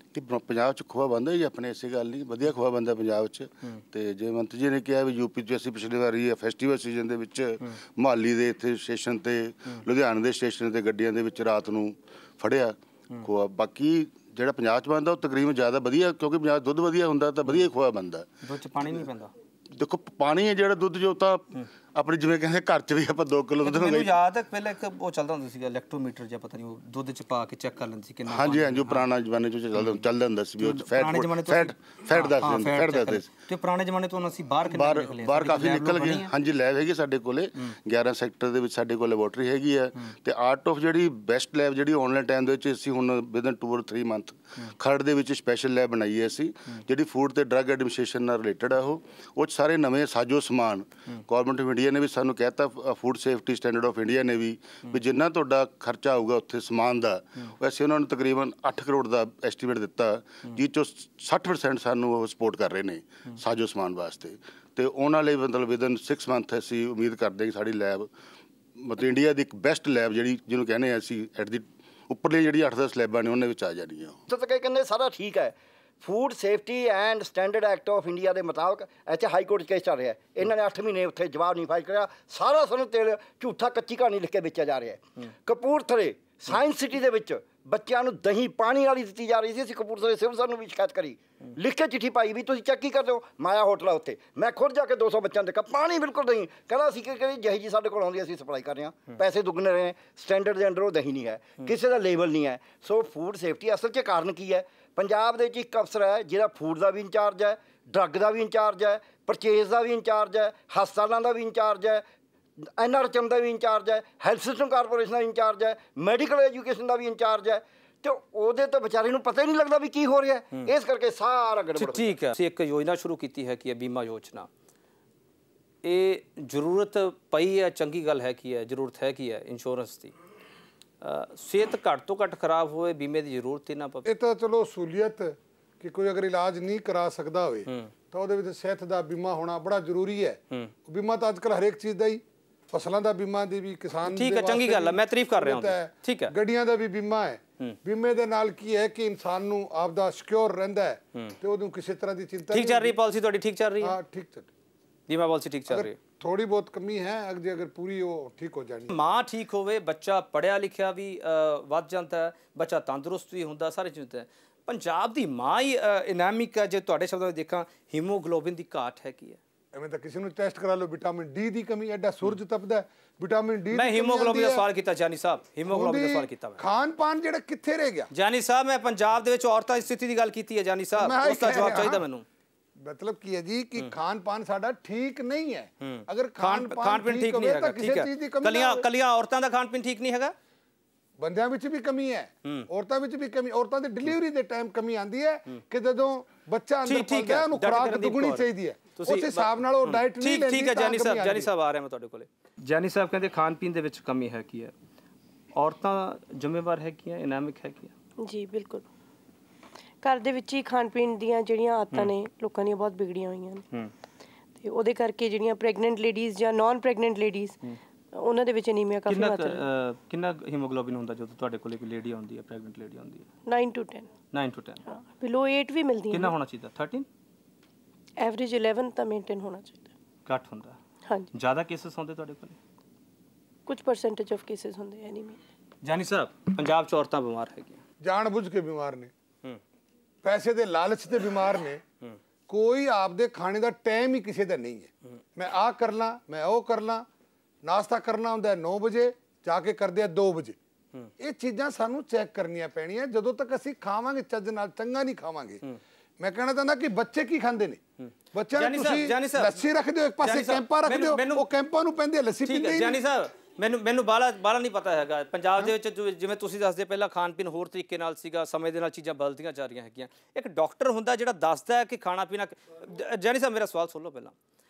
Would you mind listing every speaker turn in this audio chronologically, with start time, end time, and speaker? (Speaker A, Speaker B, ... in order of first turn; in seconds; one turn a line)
Speaker A: 0.1-18.3
Speaker B: 18.4-19.3
Speaker A: 19.8-24.1
Speaker B: 23.6-29.1
Speaker A: 28.3-33.3
Speaker B: 30.6-36.3
Speaker A: 34.6-68.1
Speaker A: 68.8-74.2
Speaker C: 74.3-112.0
Speaker C: 112.7-122.2
Speaker B: 121.8-124.5
Speaker B: 125.8-130.1
Speaker B: 131.0-134.1
Speaker D: 134.1-153.0
Speaker B: 144.1-146.3
Speaker B: 152.5-154.0
Speaker D: 153.8-154.5
Speaker B: 155.1-156.0
Speaker D: 155.7-158.9
Speaker B: 158.9-169.4
Speaker D: 169.7-174.7
Speaker B: 173.7-176.6
Speaker D: 175.7-178.1
Speaker B: 178.1-182.2
Speaker D: 181.0-182.1
Speaker D: 182.8-188.9
Speaker B: 185.8-190.3
Speaker D: 191.2-201.5
Speaker B: 196.8-198.4
Speaker B: 199.0-204.7
Speaker B: 205.6-207.9
Speaker E: 208.2-208.9
Speaker E: 210.0-213.6
Speaker E: 214.6-217.6
Speaker E: 218.1-219.6
Speaker B: 219.1-223.3
Speaker E: 223.5-224.1
Speaker B: 224.3-224.8
Speaker E: 224.8-226.3
Speaker B: 226.1-227.1
Speaker E: 228.2-229.9
Speaker B: 230.3-230.8
Speaker B: 231.3-232.6
Speaker E: 233.7-235.4
Speaker B: 235.8-237.8
Speaker D: 238.0-239.1
Speaker D: 240.2-241.8
Speaker D: 242.5-247.1
Speaker D: 247.6-250.6
Speaker D: 251.2-255.6
Speaker D: 256.2-257.8
Speaker B: 258.0-259.6
Speaker D: 258.3-263.0
Speaker B: 260.2-261.5
Speaker B: 262.4-274.3